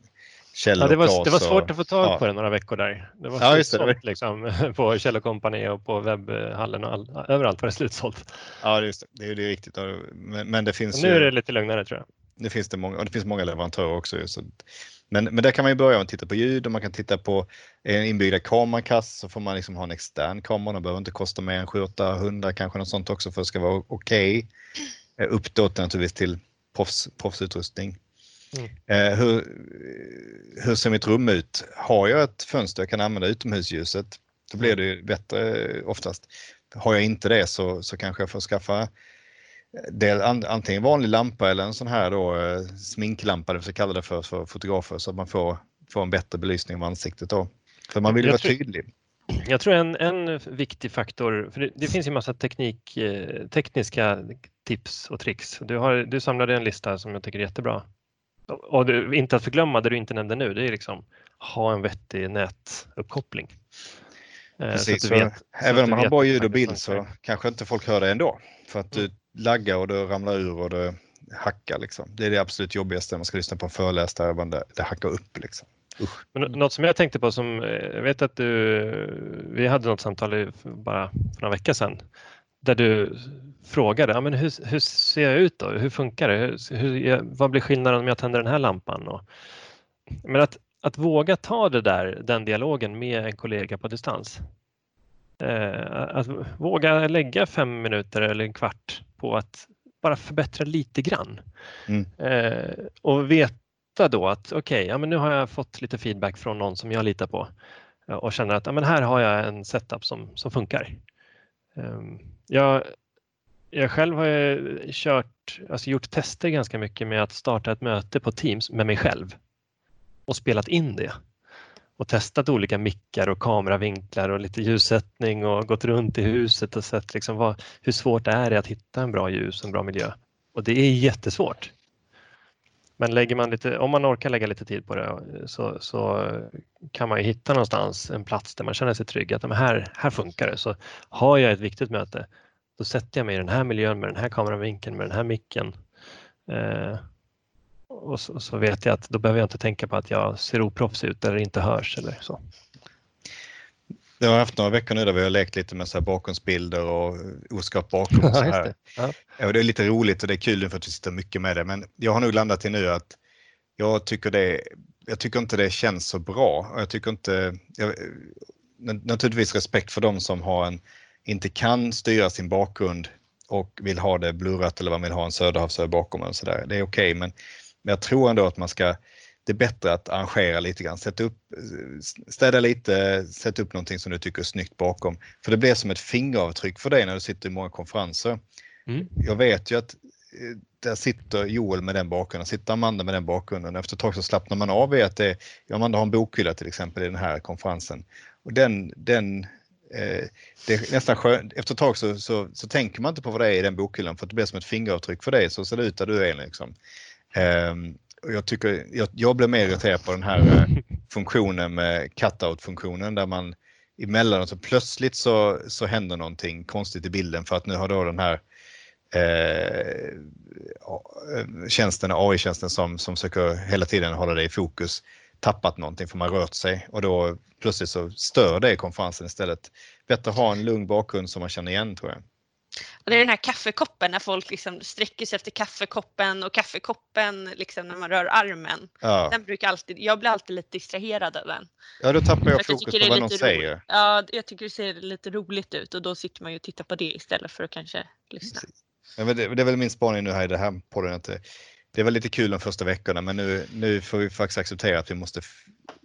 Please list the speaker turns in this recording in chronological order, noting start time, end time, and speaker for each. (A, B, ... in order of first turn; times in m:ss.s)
0:00.5-0:02.2 A
0:00.8-0:08.4 B
0:03.4-0:04.0 A
0:08.6-0:11.3 A
0:10.9-0:12.0 B
0:12.4-0:24.5 A
0:25.2-0:28.0 A
0:28.9-0:38.9 A
0:39.7-0:48.9 A
0:48.1-0:48.6 B
0:49.4-0:57.8 B
0:58.5-1:03.6 B
1:04.6-1:07.1 B
1:04.7-1:16.2 A
1:16.3-1:22.0 B
1:22.6-1:29.2 B
1:30.2-1:34.4 B
1:35.4-1:41.4 B
1:42.2-1:47.5 B
1:48.1-1:51.0 B
1:51.8-1:53.0 B
1:53.7-1:59.4 B
2:00.3-2:01.2 B
2:02.0-2:11.7 B
2:13.0-2:25.7 B
2:26.5-2:27.0 B
2:27.9-2:32.4 B
2:34.2-2:38.8 A
2:38.2-2:39.2 B
2:39.4-2:43.2 A
2:43.8-2:57.3 A
2:57.8-3:08.4 A
3:09.1-3:26.8 A
3:27.3-3:38.4 A
3:39.1-3:52.2 A
3:53.0-4:01.7 C
3:59.0-3:59.4 A
4:02.0-4:03.8 A
4:02.5-4:08.7 C
4:09.2-4:11.4 A
4:11.9-4:15.6 A